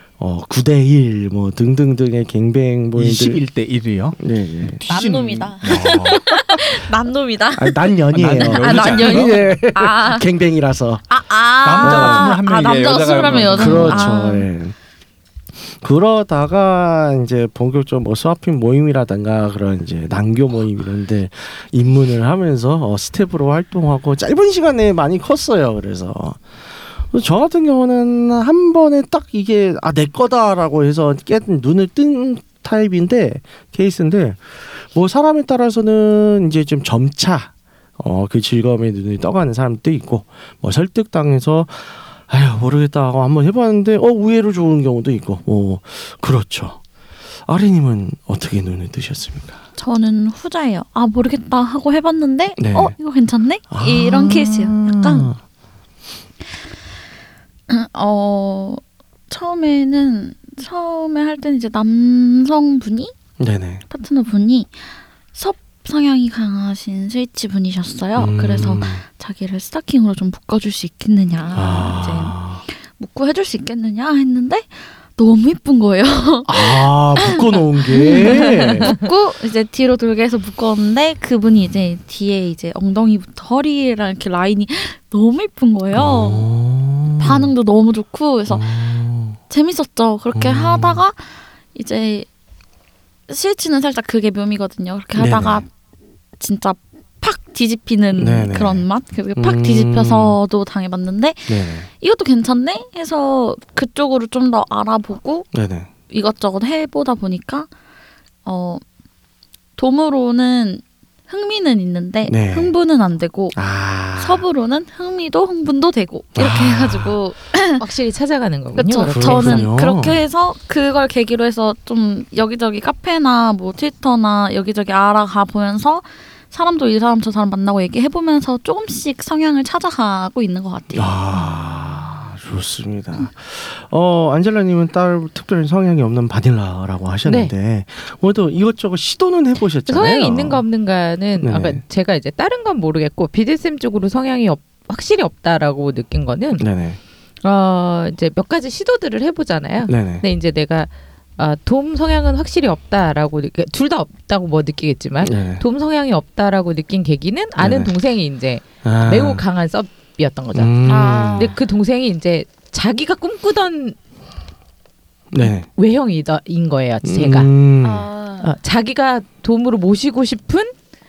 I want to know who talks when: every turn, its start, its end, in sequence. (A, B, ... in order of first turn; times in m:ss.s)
0:00.2-0:03.4 A
0:02.9-0:04.2 B
0:04.2-0:04.8 A
0:04.7-0:06.3 B
0:04.9-0:10.2 C
0:07.5-0:11.0 A
0:08.1-0:09.4 B
0:11.1-0:14.5 C
0:11.6-0:14.1 B
0:11.8-0:12.3 A
0:13.5-0:14.7 A
0:15.8-0:26.4 A
0:27.1-0:46.8 A
0:47.4-0:49.6 A
0:49.8-0:55.3 C
0:52.6-0:53.0 A
0:53.7-0:55.4 A
0:57.7-1:03.1 C
1:03.4-1:03.8 A
1:03.9-1:04.8 C
1:05.3-1:26.4 C
1:08.2-1:09.0 A
1:11.5-1:12.6 A
1:16.4-1:19.0 A
1:25.9-1:27.5 A
1:27.2-1:28.7 C
1:28.5-1:29.4 A
1:29.5-1:32.3 C
1:30.3-1:31.0 A
1:33.3-1:35.7 C
1:35.2-1:35.6 A
1:36.4-1:45.5 C
1:38.2-1:40.4 A
1:41.5-1:41.9 A
1:45.5-1:45.9 A
1:46.1-1:47.7 C
1:48.4-1:48.8 C
1:49.8-1:53.6 C
1:52.3-1:52.7 A
1:53.5-1:54.4 A
1:54.2-1:57.8 C
1:56.3-1:57.2 A
1:57.8-1:59.7 D
1:58.7-2:11.2 C
1:59.1-2:00.2 A
2:10.9-2:20.6 A
2:17.2-2:17.5 D
2:19.8-2:26.6 D
2:21.4-2:21.8 A
2:26.6-2:27.0 A
2:27.4-2:44.0 D
2:29.9-2:30.2 A
2:35.2-2:35.6 A
2:37.6-2:37.9 A
2:38.8-2:39.4 A
2:40.5-2:41.5 A
2:40.8-2:41.6 C
2:45.3-2:45.7 A
2:45.4-2:47.5 D
2:47.0-2:48.1 A
2:47.8-2:48.5 C
2:48.4-2:50.7 D